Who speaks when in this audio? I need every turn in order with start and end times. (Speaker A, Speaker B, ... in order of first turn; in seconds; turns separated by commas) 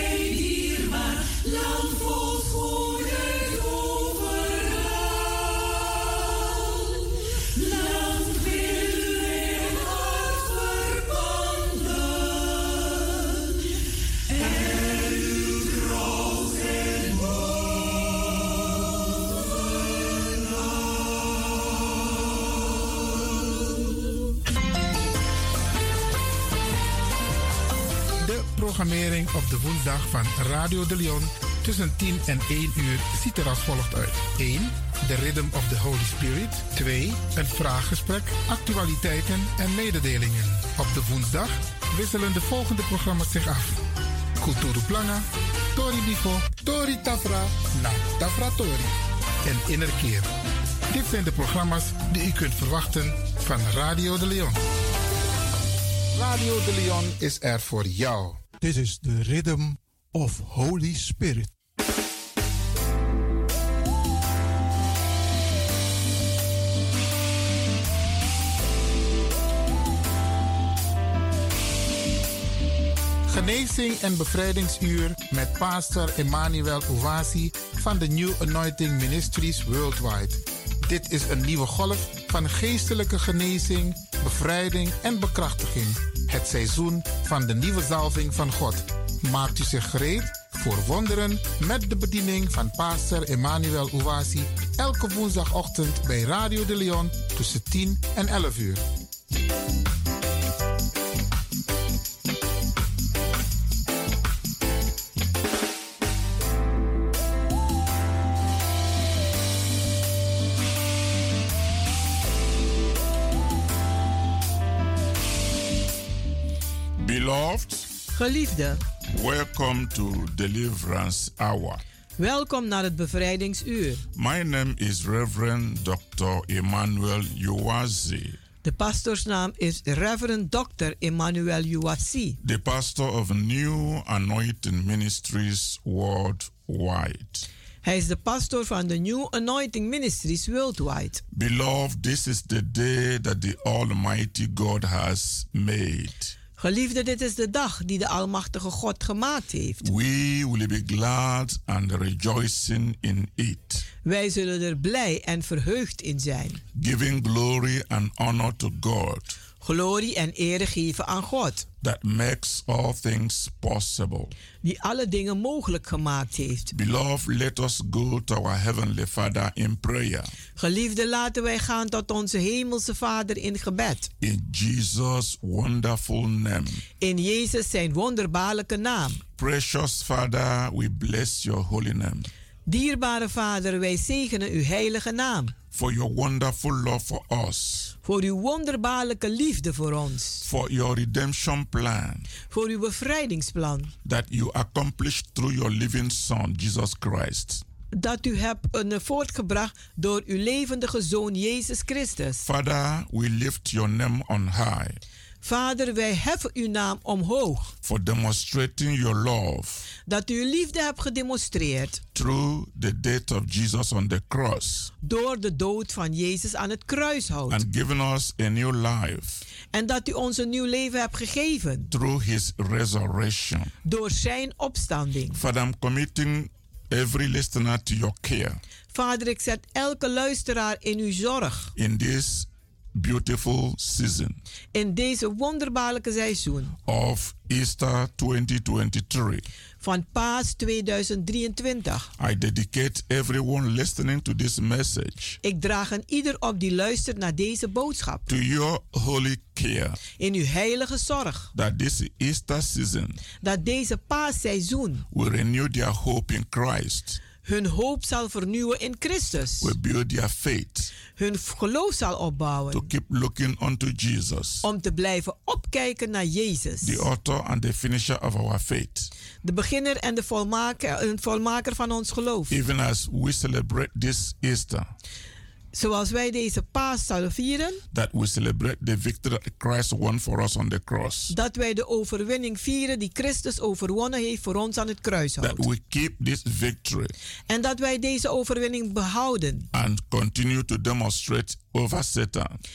Speaker A: 28.2-43.8, Speaker A: 44.4-50.3, Speaker A: 50.9-54.6, Speaker A: 56.1-58.4, Speaker B: 58.6-61.5, Speaker A: 73.3-98.8, Speaker C: 117.0-117.9, Speaker D: 118.1-118.8, Speaker C: 119.1-121.8, Speaker D: 122.2-124.0, Speaker C: 124.1-128.4, Speaker D: 128.6-132.4, Speaker C: 132.4-137.5, Speaker D: 137.8-141.2, Speaker C: 141.3-146.3, Speaker D: 146.6-149.8, Speaker C: 149.8-153.8, Speaker D: 154.0-156.6, Speaker C: 156.7-159.4, Speaker D: 159.6-161.7, Speaker C: 161.8-164.3, Speaker D: 164.6-166.7, Speaker C: 166.7-170.3, Speaker D: 170.6-174.1, Speaker C: 174.2-176.8, Speaker D: 177.0-179.2, Speaker C: 179.4-182.3, Speaker D: 182.7-185.5, Speaker C: 185.7-187.9, Speaker D: 188.0-190.4, Speaker C: 190.4-192.3, Speaker D: 192.5-193.9, Speaker C: 194.0-197.6, Speaker D: 197.9-202.4, Speaker C: 202.4-205.0, Speaker D: 205.4-207.7, Speaker C: 207.8-209.9, Speaker D: 210.0-212.0, Speaker C: 212.1-214.9, Speaker D: 215.0-217.6, Speaker C: 217.5-219.4, Speaker D: 219.7-221.9, Speaker C: 221.9-223.7, Speaker D: 223.8-225.4, Speaker C: 225.3-228.6, Speaker D: 228.9-231.7, Speaker C: 231.8-234.4, Speaker D: 234.7-236.7, Speaker C: 236.8-239.5, Speaker D: 239.8-242.1, Speaker C: 242.2-245.4, Speaker D: 245.4-248.3, Speaker C: 248.3-250.0, Speaker D: 250.2-251.5, Speaker C: 251.5-253.2, Speaker D: 253.4-255.0, Speaker C: 255.1-257.2, Speaker D: 257.4-259.7, Speaker C: 259.6-260.9, Speaker D: 261.1-262.9, Speaker C: 262.7-264.6, Speaker D: 264.6-267.0, Speaker C: 266.8-269.1, Speaker D: 269.4-272.6, Speaker C: 272.5-274.9, Speaker D: 275.7-277.8, Speaker C: 277.9-281.3, Speaker D: 281.3-285.6, Speaker C: 285.4-287.1, Speaker D: 287.5-289.7, Speaker C: 289.7-292.6